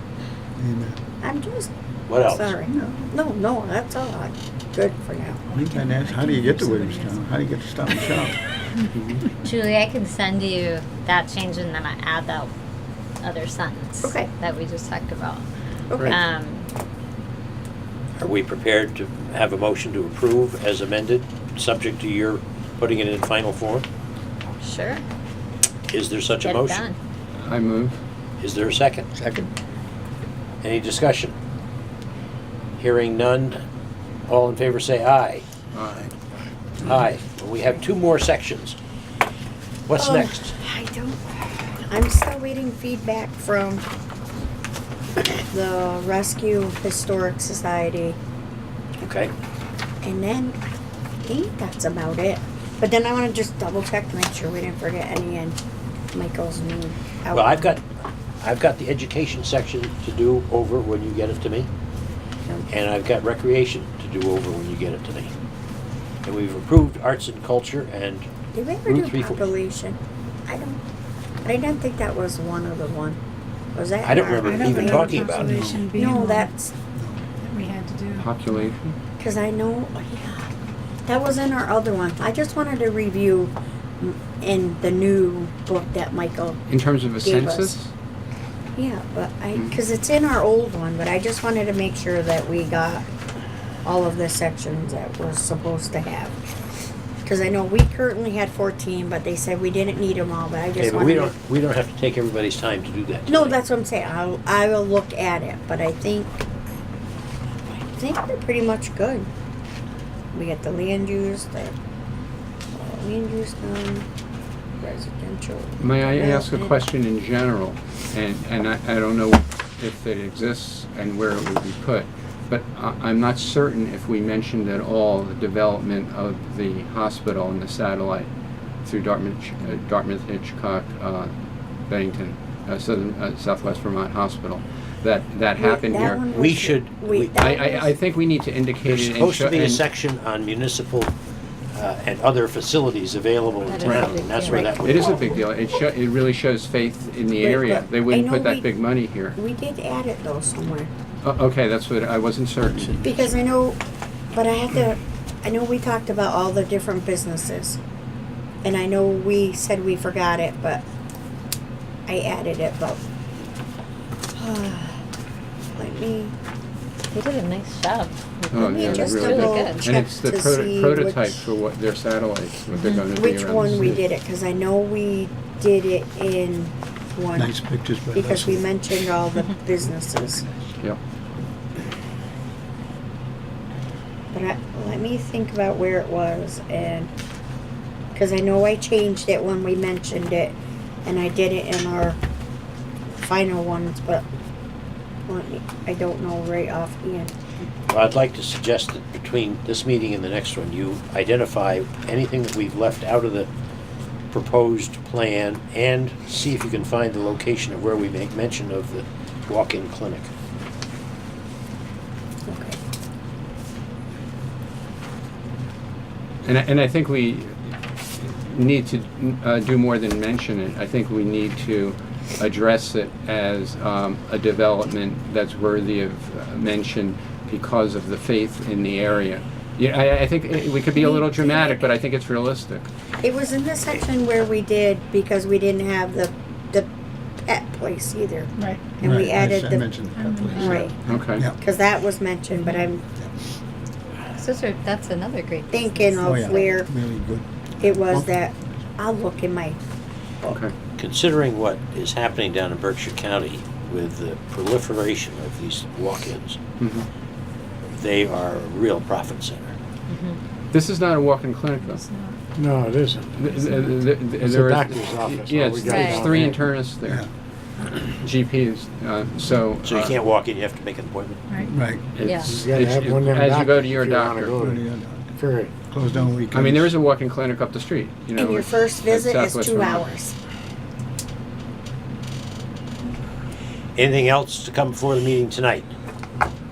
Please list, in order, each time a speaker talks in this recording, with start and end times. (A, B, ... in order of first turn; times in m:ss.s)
0:00.6-0:01.0 A
0:01.2-0:01.7 B
0:02.1-0:02.6 C
0:02.2-0:05.4 B
0:02.7-0:03.0 A
0:05.5-0:07.2 D
0:05.5-0:08.4 A
0:08.9-0:09.3 E
0:09.4-0:12.5 F
0:13.2-0:15.4 F
0:14.0-0:14.3 B
0:15.9-0:16.2 B
0:16.1-0:16.7 F
0:18.2-0:23.8 C
0:24.6-0:25.0 F
0:25.9-0:26.9 C
0:26.4-0:26.9 F
0:27.4-0:28.0 E
0:28.4-0:29.1 C
0:29.1-0:29.5 A
0:30.6-0:31.3 C
0:32.8-0:33.6 C
0:34.3-0:35.4 C
0:35.7-0:36.1 E
0:36.8-0:38.8 C
0:39.9-0:40.6 C
0:39.9-0:43.8 B
0:45.2-0:48.2 B
0:49.0-0:49.3 C
0:50.0-0:50.6 B
0:51.2-0:55.6 B
0:56.1-0:57.8 B
0:57.3-0:57.8 C
0:58.4-1:01.7 C
1:02.7-1:05.3 C
1:06.2-1:08.3 C
1:08.5-1:10.8 B
1:08.9-1:09.5 C
1:11.4-1:13.2 B
1:13.7-1:16.7 B
1:14.0-1:15.6 C
1:14.4-1:16.5 D
1:15.4-1:16.0 A
1:16.9-1:17.2 A
1:17.4-1:18.7 D
1:18.2-1:18.9 E
1:19.2-1:20.5 B
1:21.1-1:26.6 B
1:26.7-1:27.9 E
1:27.2-1:27.8 B
1:28.8-1:33.1 B
1:33.8-1:36.5 B
1:37.2-1:41.3 B
1:40.8-1:43.6 C
1:43.3-1:46.4 B
1:47.7-1:49.3 B
1:50.3-1:51.7 B
1:52.7-1:54.0 B
1:54.8-1:56.8 B
1:55.8-2:08.3 E
2:08.8-2:11.3 E
2:11.9-2:16.3 E
2:15.6-2:17.9 B
2:16.3-2:17.4 C
2:17.4-2:19.8 E
2:18.9-2:21.1 C
2:21.7-2:25.3 C
2:23.7-2:24.7 F
2:23.8-2:24.1 E
2:24.8-2:29.4 E
2:27.4-2:28.7 B
2:29.3-2:30.9 B
2:31.2-2:33.0 E
2:32.6-2:33.4 A
2:33.0-2:33.8 B
2:34.3-2:37.8 B
2:38.6-2:40.8 B
2:42.1-2:43.0 B
2:44.4-2:45.0 B
2:45.7-2:46.3 B
2:47.1-2:49.8 F
2:48.5-2:51.4 B
2:48.5-2:54.0 E
2:53.1-2:57.6 B
2:53.6-2:54.0 A
2:57.3-2:58.8 A
2:58.1-3:00.4 B
3:00.4-3:00.7 A
3:04.3-3:07.1 B
3:08.1-3:10.5 B
3:11.0-3:12.2 B
3:13.2-3:14.2 B
3:15.3-3:17.3 B
3:17.9-3:23.5 C
3:24.3-3:30.3 C
3:32.5-3:32.8 B
3:36.4-3:52.9 E
3:50.9-3:51.9 B
3:53.2-3:56.9 B
3:57.4-3:59.9 B
3:58.6-3:58.8 D
3:59.0-4:01.6 A
4:00.1-4:00.9 D
4:00.5-4:01.0 B
4:01.0-4:01.4 E
4:01.5-4:03.0 B
4:04.4-4:06.3 F
4:05.7-4:06.9 B
4:06.2-4:08.5 A
4:07.8-4:09.8 B
4:11.0-4:16.6 C
4:16.8-4:17.1 E
4:17.9-4:19.7 C
4:20.1-4:20.4 F
4:20.7-4:22.0 E
4:21.8-4:22.4 D
4:22.5-4:23.4 G
4:23.3-4:27.2 E
4:23.4-4:24.1 D
4:24.3-4:26.7 G
4:25.9-4:26.2 F
4:27.8-4:30.2 E
4:29.8-4:31.4 C
4:31.5-4:31.7 D
4:31.6-4:32.0 A
4:32.2-4:34.6 E
4:32.4-4:35.7 G
4:34.6-4:35.4 A
4:35.9-4:36.9 A
4:36.5-4:40.1 E
4:38.4-4:40.3 B
4:44.0-4:45.9 C